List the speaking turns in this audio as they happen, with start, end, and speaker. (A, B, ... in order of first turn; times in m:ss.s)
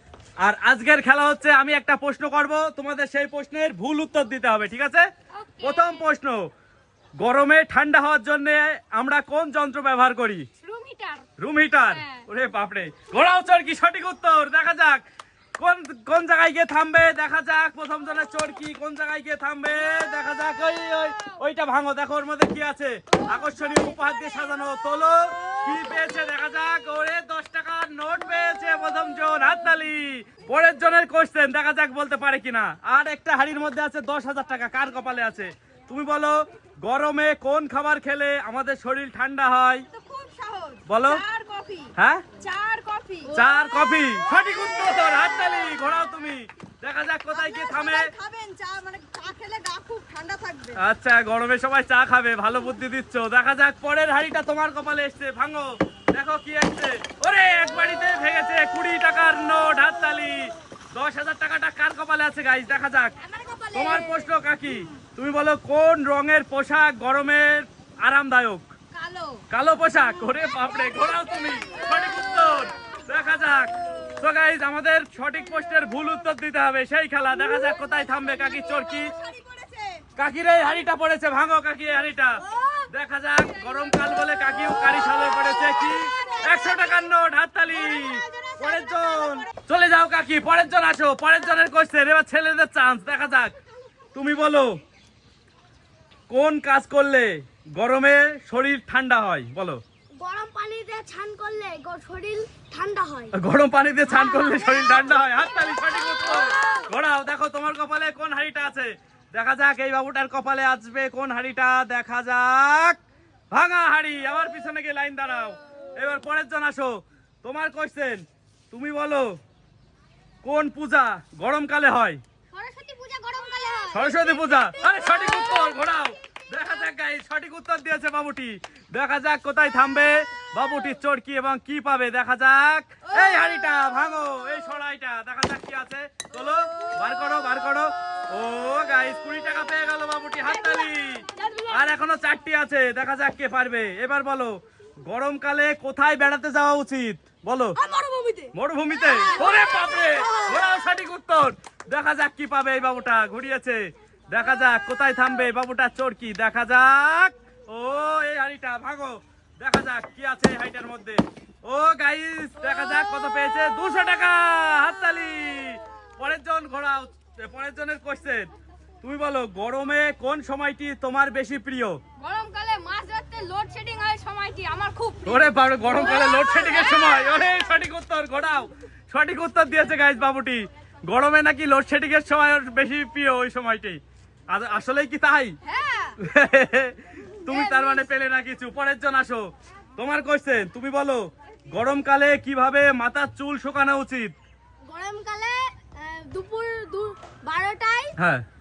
0:00.4-0:05.1 A
0:05.4-0:06.0 B
0:05.6-0:06.5 A
0:07.2-0:10.5 A
0:10.6-0:11.2 B
0:11.4-0:15.0 A
0:11.9-0:12.3 B
0:15.6-0:39.8 A
0:23.3-0:23.7 B
0:39.9-0:43.4 C
0:40.8-0:41.2 A
0:42.0-0:42.2 A
0:43.2-0:44.1 B
0:43.3-0:48.1 A
0:44.0-0:45.7 C
0:47.3-0:50.8 C
0:50.8-1:03.2 A
1:03.2-1:04.3 B
1:03.7-1:08.7 A
1:08.9-1:09.4 B
1:09.5-1:19.1 A
1:11.6-1:12.1 B
1:17.6-1:20.0 C
1:20.2-1:33.5 A
1:22.5-1:22.8 C
1:25.1-1:27.0 C
1:27.7-1:29.5 C
1:34.1-1:34.8 A
1:36.3-1:39.8 A
1:40.2-1:43.3 B
1:43.3-1:53.0 A
1:44.1-1:46.9 B
1:53.5-1:59.3 A
2:00.4-2:02.2 A
2:02.5-2:05.7 B
2:03.9-2:27.8 A
2:20.5-2:21.9 B
2:27.8-2:28.5 C
2:28.5-2:48.5 A
2:29.1-2:30.6 C
2:29.2-2:30.3 B
2:49.0-2:52.0 A
2:52.2-2:57.6 B
2:55.2-3:04.0 A
3:04.5-3:05.6 A
3:05.6-3:06.2 B
3:06.2-3:14.3 A
3:07.4-3:08.0 B
3:14.8-3:18.1 B
3:18.2-3:18.4 A